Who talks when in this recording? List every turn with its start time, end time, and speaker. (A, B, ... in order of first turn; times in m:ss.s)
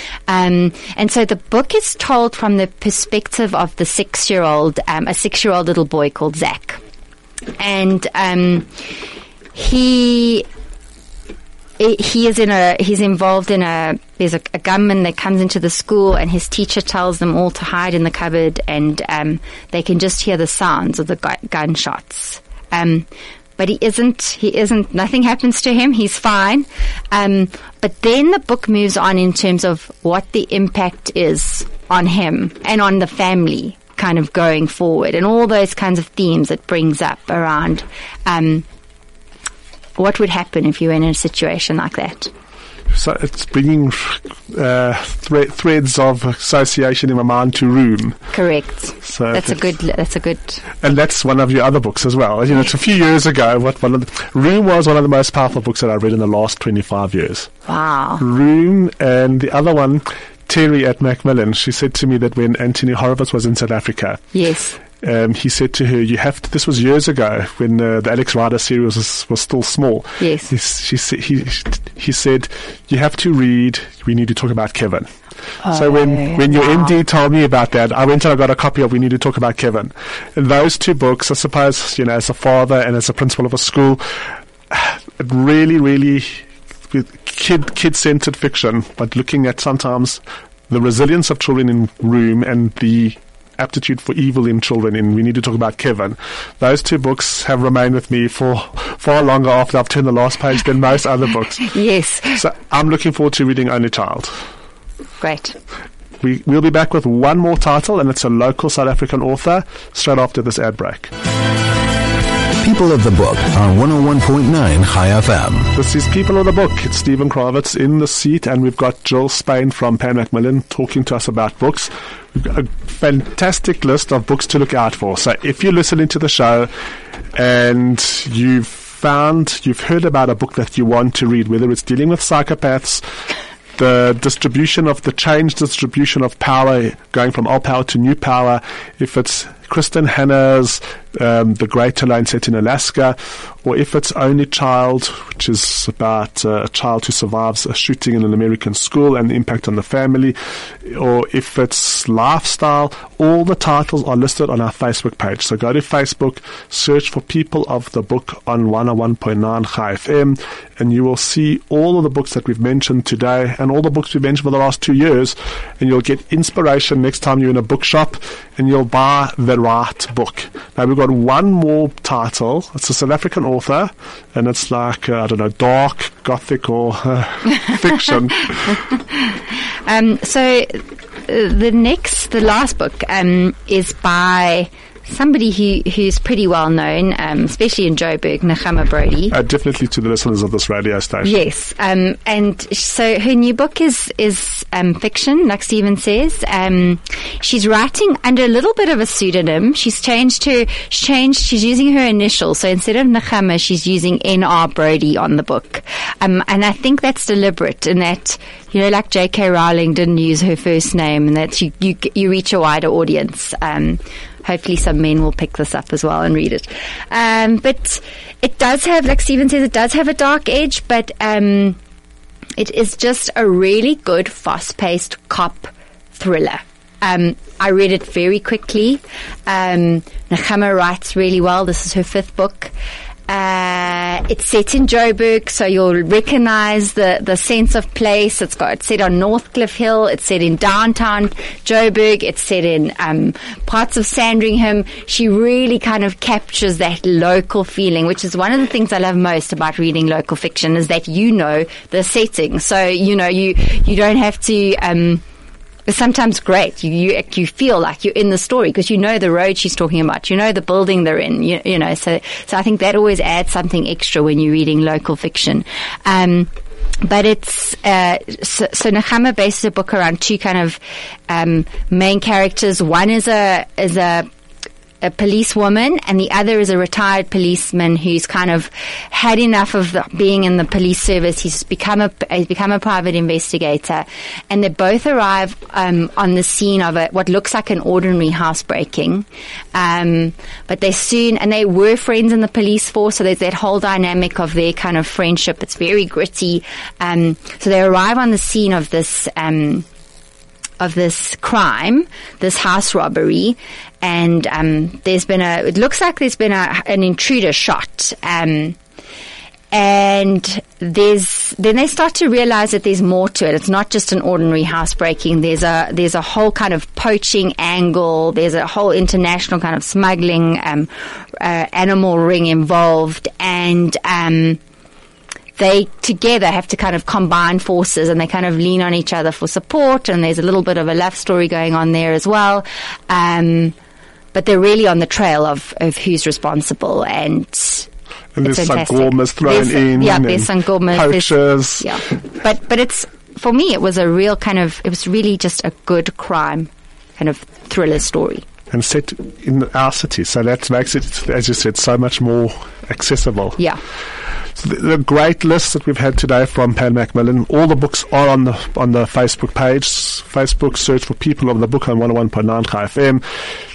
0:00.3-0:06.8 A
0:07.6-0:08.7 A
0:09.5-0:10.4 A
0:11.8-0:23.1 A
0:23.6-0:38.6 A
0:40.0-0:42.3 A
0:42.9-0:48.2 B
0:48.3-0:50.6 A
0:49.0-0:49.6 B
0:50.8-0:57.5 B
0:57.7-0:58.2 A
0:58.2-1:04.2 B
1:04.3-1:04.8 A
1:05.0-1:15.1 B
1:10.2-1:10.5 A
1:15.6-1:16.9 A
1:15.6-1:41.7 B
1:41.7-1:42.4 A
1:42.3-1:44.4 B
1:45.2-1:45.6 A
1:46.2-1:51.1 B
1:52.6-1:55.7 C
1:55.7-2:06.7 B
2:07.3-2:13.0 B
2:13.8-2:58.8 B
2:58.9-3:09.3 A
3:09.3-3:11.3 B
3:11.2-3:41.8 A
3:42.6-3:52.7 A
3:53.3-4:15.2 A
4:15.9-4:26.5 A
4:27.0-4:34.3 A
4:35.0-4:59.8 A
5:00.8-5:08.8 A
5:09.7-5:24.6 A
5:25.6-5:33.7 A
5:34.3-5:37.9 A
5:38.4-5:42.0 B
5:38.4-5:48.4 A
5:48.7-5:53.6 B
5:54.5-6:03.2 B